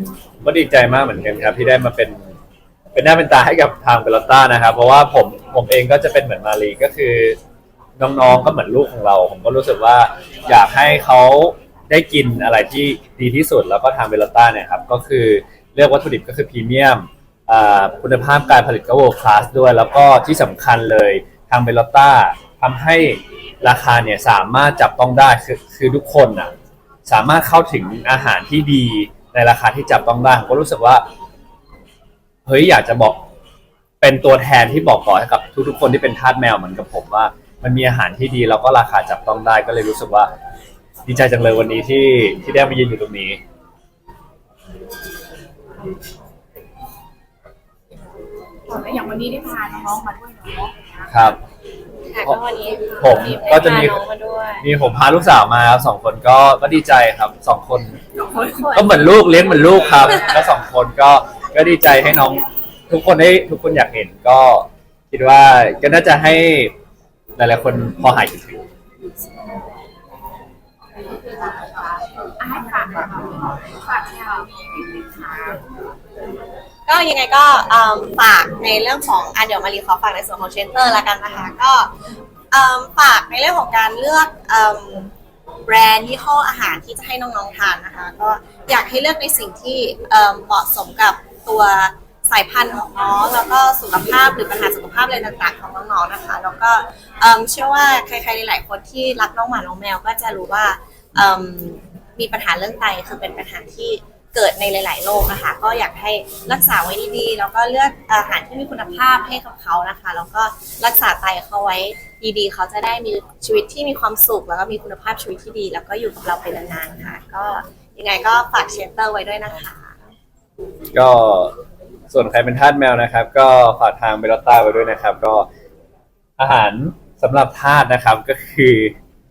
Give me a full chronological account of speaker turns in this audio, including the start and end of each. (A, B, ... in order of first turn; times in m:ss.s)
0:00.4-0:02.4 A
0:02.9-0:07.4 A
0:08.0-0:26.5 A
0:27.1-0:31.0 A
0:32.5-0:33.2 A
0:34.0-0:40.3 A
0:41.1-0:43.4 A
0:48.7-0:50.8 B
0:51.1-0:51.4 A
0:52.1-0:54.7 C
0:53.0-0:54.0 A
0:54.6-0:58.0 A
0:58.6-1:06.7 A
1:07.4-1:08.7 A
1:12.4-1:15.6 B
1:14.0-1:14.4 C
1:16.9-1:21.9 C
1:22.5-1:25.1 C
1:25.6-2:00.0 C
2:00.9-2:01.5 A
2:02.1-2:05.5 A
2:06.4-2:09.0 A